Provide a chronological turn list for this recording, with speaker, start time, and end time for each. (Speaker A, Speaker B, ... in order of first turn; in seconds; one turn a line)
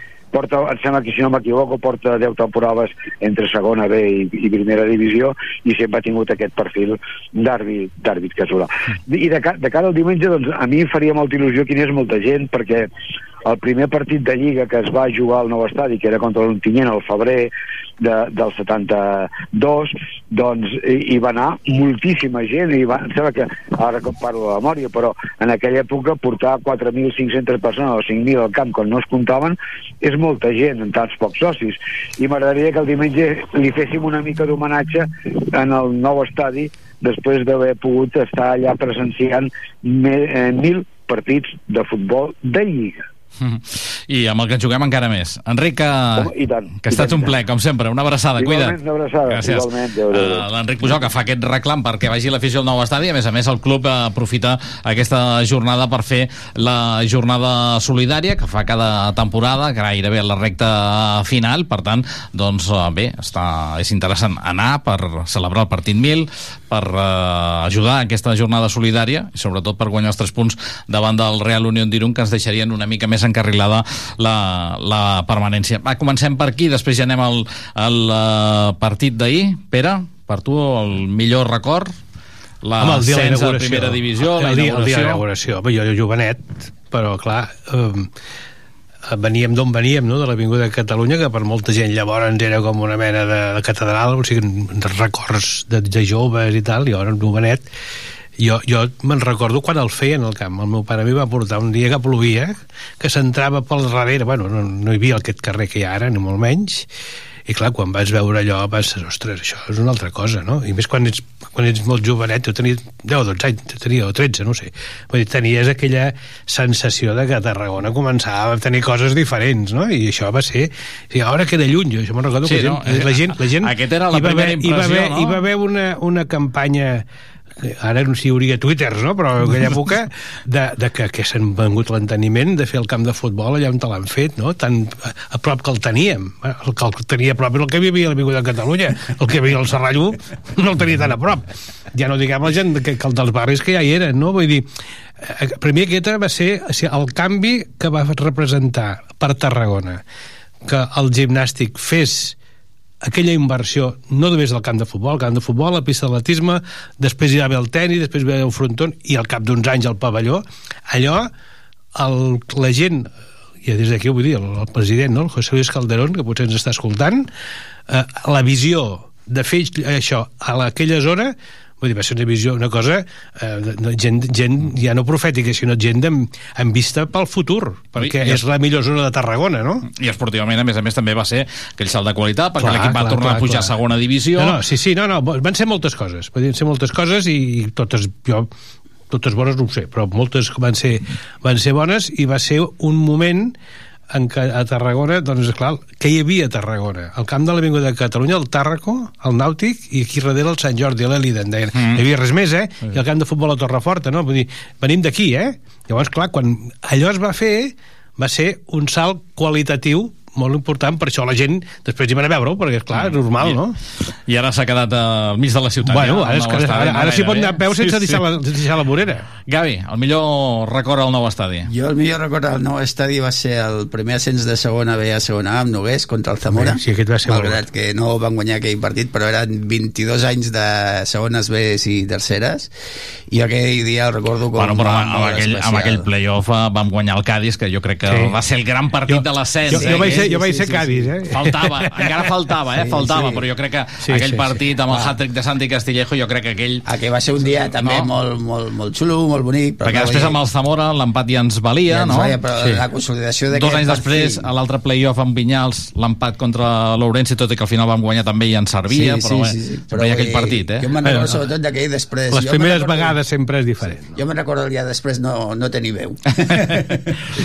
Speaker A: 0.3-12.9
Speaker A: 13.4-43.0
Speaker B: 43.4-46.3
Speaker A: 46.2-47.3
Speaker B: 46.8-48.8
Speaker A: 48.4-50.5
Speaker B: 49.3-81.9
Speaker B: 82.6-85.2
Speaker C: 82.8-88.1
Speaker C: 89.1-97.7
Speaker C: 98.4-106.9
Speaker C: 107.5-127.0
Speaker B: 122.4-125.4
Speaker C: 127.6-144.7
Speaker C: 145.2-150.0
Speaker C: 150.6-152.4
Speaker C: 153.0-161.3
Speaker C: 161.9-163.1
Speaker C: 163.6-167.3
Speaker C: 167.9-179.8
Speaker B: 178.0-178.4
Speaker B: 179.9-184.6
Speaker C: 182.6-183.7
Speaker C: 184.4-188.5
Speaker C: 189.1-193.6
Speaker C: 194.1-213.8
Speaker B: 201.7-202.0
Speaker B: 212.9-218.3
Speaker C: 215.9-219.3
Speaker B: 219.5-221.7
Speaker D: 221.7-232.7
Speaker C: 226.5-227.6
Speaker D: 233.3-236.1
Speaker B: 234.6-240.3
Speaker C: 238.1-238.3
Speaker C: 239.1-242.2
Speaker D: 239.8-241.1
Speaker B: 241.3-246.8
Speaker D: 242.7-243.4
Speaker C: 244.0-244.5
Speaker D: 246.8-250.4
Speaker B: 247.7-248.1
Speaker B: 249.8-252.4
Speaker D: 251.9-254.4
Speaker B: 253.5-260.9
Speaker D: 258.9-263.1
Speaker C: 261.0-261.4
Speaker C: 262.3-264.2
Speaker D: 263.9-267.0
Speaker B: 266.5-267.0